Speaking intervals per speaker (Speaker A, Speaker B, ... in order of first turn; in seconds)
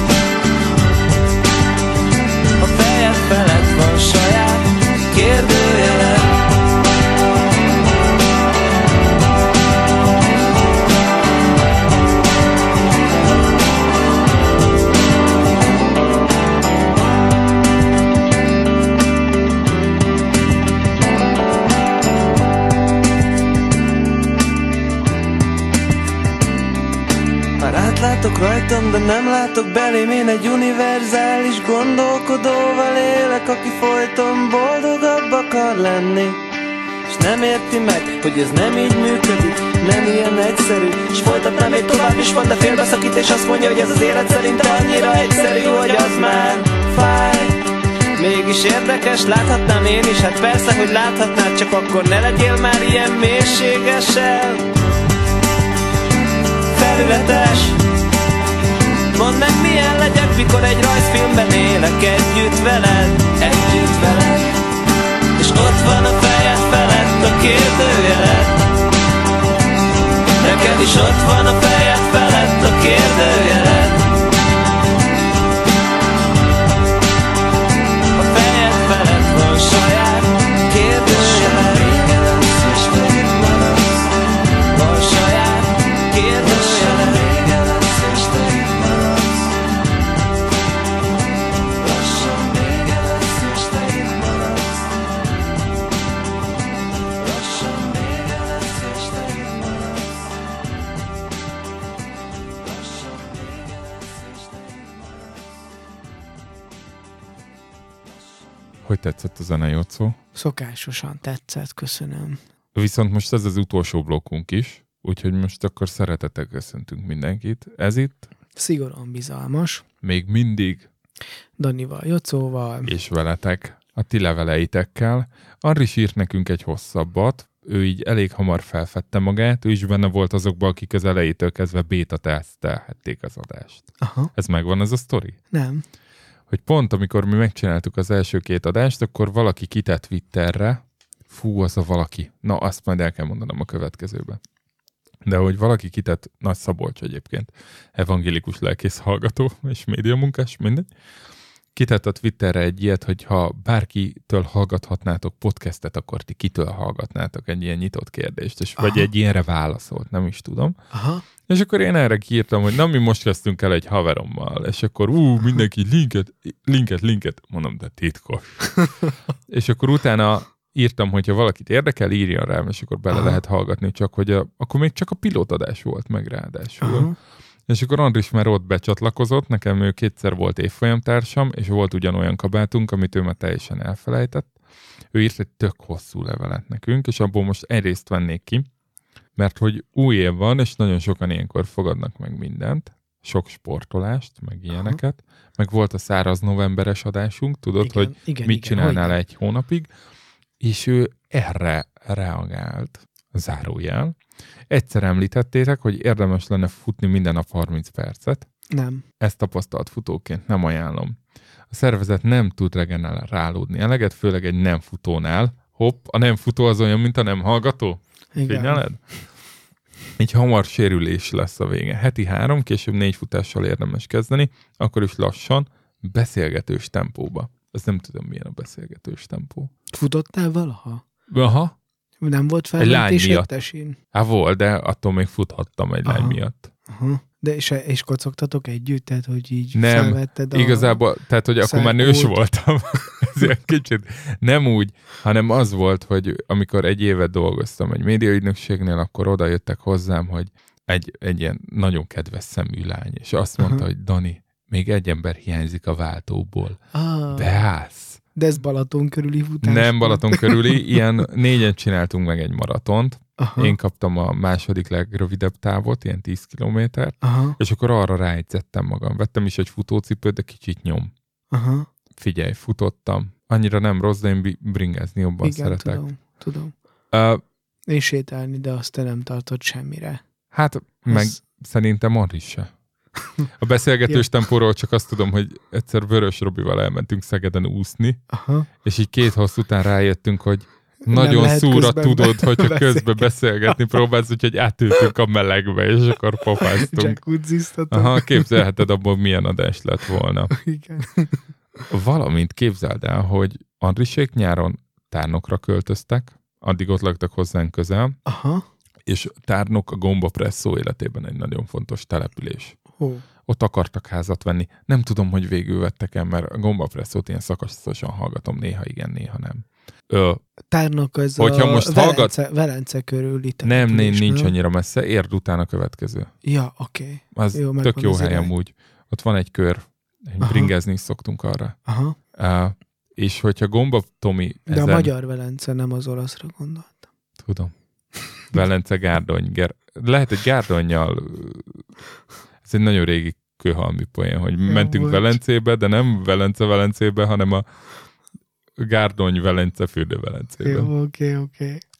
Speaker A: 2.6-6.4, 27.6-36.4, 37.1-47.6, 48.2-54.7, 56.7-57.8, 59.1-64.6, 65.4-68.6, 70.4-74.1, 78.2-84.0, 84.7-89.5, 91.8-94.9, 97.2-100.2, 102.6-105.3
Speaker B: 108.8-110.2, 112.8-118.3, 120.0-120.9, 122.9-135.4, 136.5-144.4, 145.2-150.9, 151.8-160.8, 161.5-168.9, 169.5-177.1, 177.7-184.5, 185.1-188.7, 189.4-199.9, 200.6-204.2, 204.7-208.4, 209.2-211.2, 211.7-219.0, 220.2-229.7, 231.3-231.7, 232.8-233.5, 234.1-236.7, 239.8-256.8, 257.3-258.2, 259.6-271.1, 272.2-276.0, 277.1-277.4, 280.5-282.7, 283.6-288.2, 288.8-297.2, 297.9-300.6, 301.9-308.2, 309.1-312.8, 313.5-320.4, 321.4-322.3, 323.6-326.3, 327.3-331.8, 332.4-335.1, 337.4-337.7, 338.5-341.8, 342.6-347.6, 348.8-350.9
Speaker C: 110.3-112.4, 118.6-119.8, 121.6-122.9, 134.0-134.3, 135.5-135.8, 158.8-159.1, 160.9-161.2, 173.1-173.4, 176.8-177.1, 194.7-195.0, 197.8-199.2, 208.7-209.0, 218.4-218.8, 229.9-231.0, 232.2-234.0, 236.1-241.0, 241.6-242.4, 256.9-257.5, 258.4-261.0, 263.4-263.8, 267.2-267.6, 271.5-271.9, 275.4-276.7, 277.9-280.2, 281.1-281.4, 288.3-288.7, 291.1-293.3, 296.6-298.6, 300.6-301.3, 308.3-308.6, 313.0-313.2, 320.7-324.5, 326.4-328.5, 330.4-330.7, 331.9-332.2, 334.7-337.0, 344.7-345.4, 350.6-351.8